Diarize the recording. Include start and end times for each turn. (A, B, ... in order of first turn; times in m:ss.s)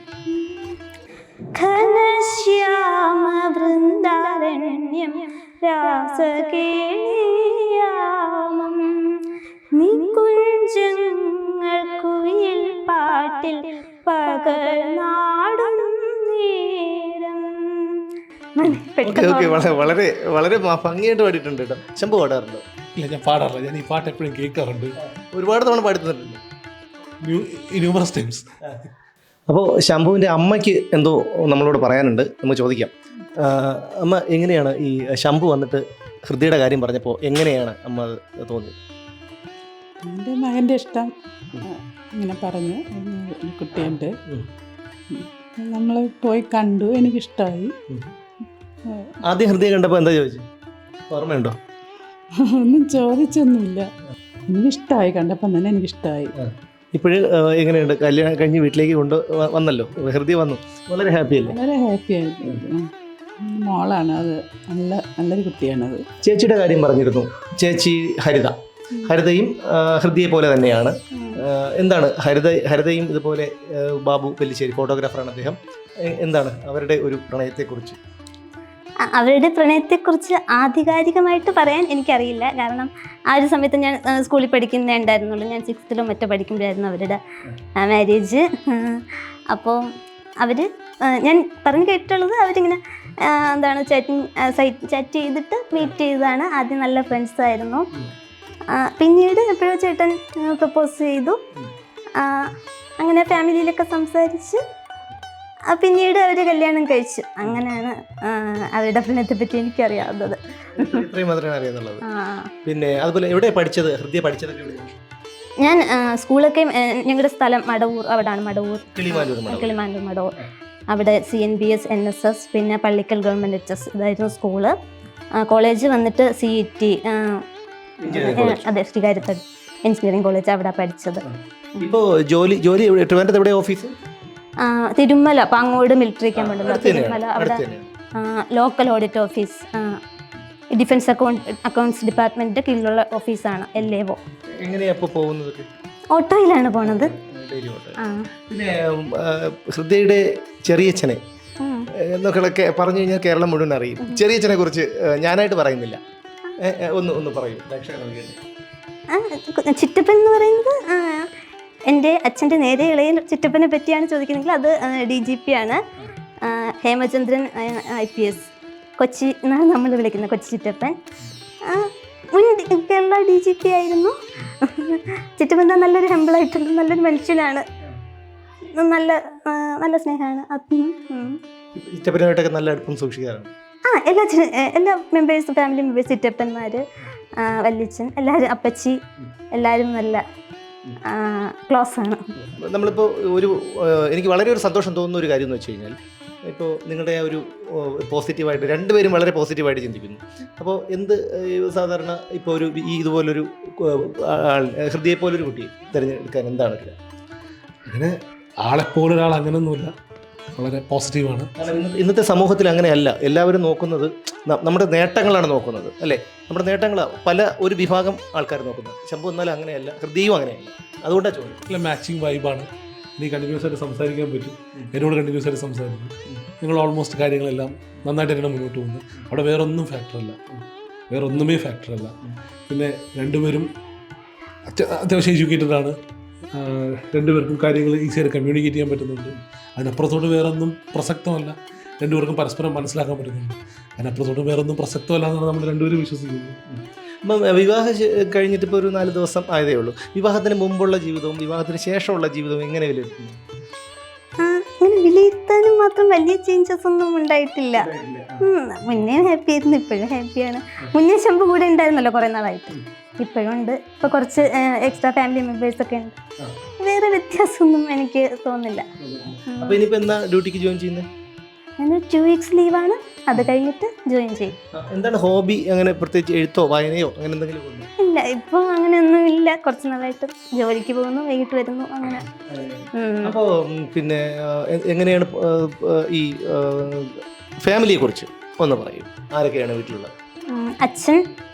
0:00.3-0:00.7 A
0:01.5-0:09.2 A
0:09.7-0:19.9 A
0:19.0-0:22.6 B
0:23.0-0:25.0 C
0:25.0-0:26.4 B
0:27.2-0:28.4 C
0:29.5-0:38.8 B
0:40.0-0:44.1 D
0:45.1-0:47.7 D
0:48.9-0:49.2 D
0:49.2-0:50.4 B
0:51.1-0:51.6 B
0:52.4-0:53.9 D
0:54.5-0:56.3 D
0:56.4-1:01.5 B
1:01.4-1:06.0 D
1:06.2-1:18.0 B
1:19.0-1:27.2 A
1:27.8-1:29.8 A
1:30.4-1:37.9 A
1:38.7-1:41.4 A
1:42.2-1:44.6 A
1:45.7-1:51.0 A
1:50.8-1:52.0 B
1:52.0-1:52.5 A
1:52.6-1:55.0 B
1:55.6-2:00.3 A
1:58.9-1:59.8 B
2:00.9-2:04.7 A
2:05.4-2:07.4 A
2:08.0-2:08.7 B
2:08.1-2:12.0 A
2:11.3-2:13.9 B
2:14.6-2:17.6 A
2:16.4-2:17.9 B
2:18.2-2:20.0 A
2:20.7-2:24.2 A
2:24.6-2:25.7 B
2:26.1-2:27.1 A
2:26.8-2:31.2 B
2:28.0-2:28.3 A
2:31.6-2:31.9 A
2:32.0-2:36.0 B
2:36.6-2:38.4 B
2:39.1-2:41.3 A
2:41.9-2:45.8 A
2:46.4-2:51.0 A
2:51.6-2:57.6 A
2:58.7-3:01.4 A
3:01.7-3:03.5 B
3:03.9-3:06.8 A
3:07.4-3:09.0 A
3:09.5-3:10.2 A
3:11.0-3:12.3 A
3:12.4-3:27.0 B
3:27.9-3:28.1 C
3:28.6-3:29.9 C
3:30.6-3:31.6 C
3:31.6-3:41.6 B
3:41.7-3:50.4 C
3:51.1-3:52.2 C
3:52.7-3:53.7 C
3:54.7-3:56.0 C
3:56.5-4:06.6 C
4:06.7-4:13.4 B
4:14.4-4:17.9 A
4:17.8-4:18.4 B
4:18.4-4:26.2 A
4:26.8-4:28.8 A
4:29.0-4:31.1 B
4:29.5-4:29.8 A
4:31.8-4:34.5 A
4:34.8-4:37.9 B
4:38.0-4:42.3 A
4:42.4-4:50.1 B
4:42.9-4:43.4 A
4:50.5-4:51.2 A